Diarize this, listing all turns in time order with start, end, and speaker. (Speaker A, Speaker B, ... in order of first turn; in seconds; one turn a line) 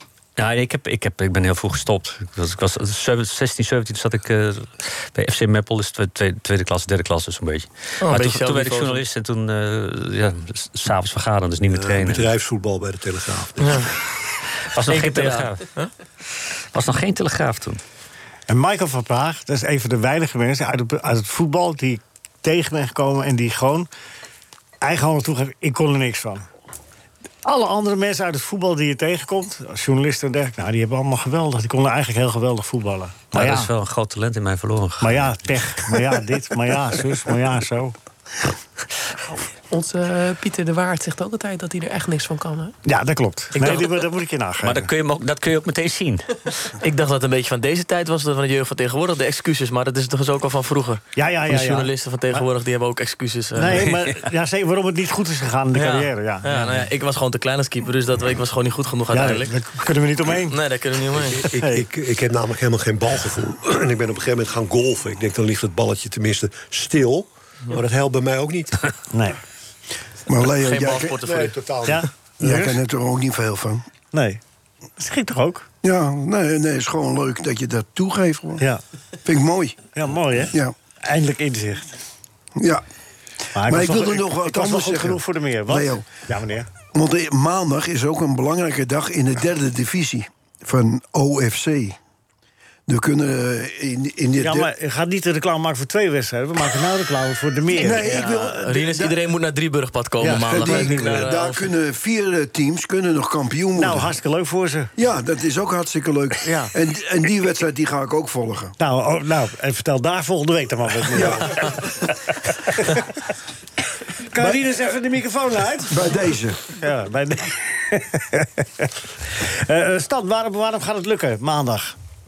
Speaker A: 0.4-12.3
Speaker B: 8.0-9.0
Speaker C: 11.7-13.7
Speaker B: 13.6-13.9
Speaker A: 14.7-15.6
Speaker B: 14.9-15.9
Speaker A: 16.7-17.8
Speaker D: 18.5-23.9
Speaker D: 24.8-26.4
Speaker D: 27.4-33.7
Speaker A: 33.3-35.4
Speaker D: 35.0-38.0
Speaker E: 39.7-42.7
Speaker D: 42.8-44.9
Speaker B: 43.5-43.9
Speaker A: 44.6-46.4
Speaker B: 46.8-53.9
Speaker D: 51.1-52.4
Speaker D: 53.5-56.9
Speaker B: 55.7-59.5
Speaker D: 59.1-60.6
Speaker B: 60.5-61.4
Speaker C: 61.1-68.9
Speaker D: 61.4-61.9
Speaker D: 69.1-69.4
Speaker F: 70.3-71.2
Speaker B: 70.5-71.5
Speaker C: 71.2-72.1
Speaker D: 71.8-72.8
Speaker F: 72.4-73.8
Speaker D: 74.1-74.4
Speaker D: 75.0-75.7
Speaker F: 75.8-78.6
Speaker F: 79.2-79.9
Speaker D: 79.9-81.9
Speaker D: 83.5-86.7
Speaker F: 83.6-86.1
Speaker F: 86.9-92.0
Speaker F: 92.9-94.7
Speaker D: 94.4-98.3
Speaker F: 97.7-99.2
Speaker B: 97.9-101.7
Speaker D: 100.2-101.3
Speaker F: 100.4-104.1
Speaker D: 103.8-104.9
Speaker F: 105.0-108.7
Speaker D: 106.4-106.7
Speaker D: 108.8-113.1
Speaker F: 111.1-111.5
Speaker D: 114.3-116.1
Speaker F: 115.9-116.7
Speaker D: 116.7-122.0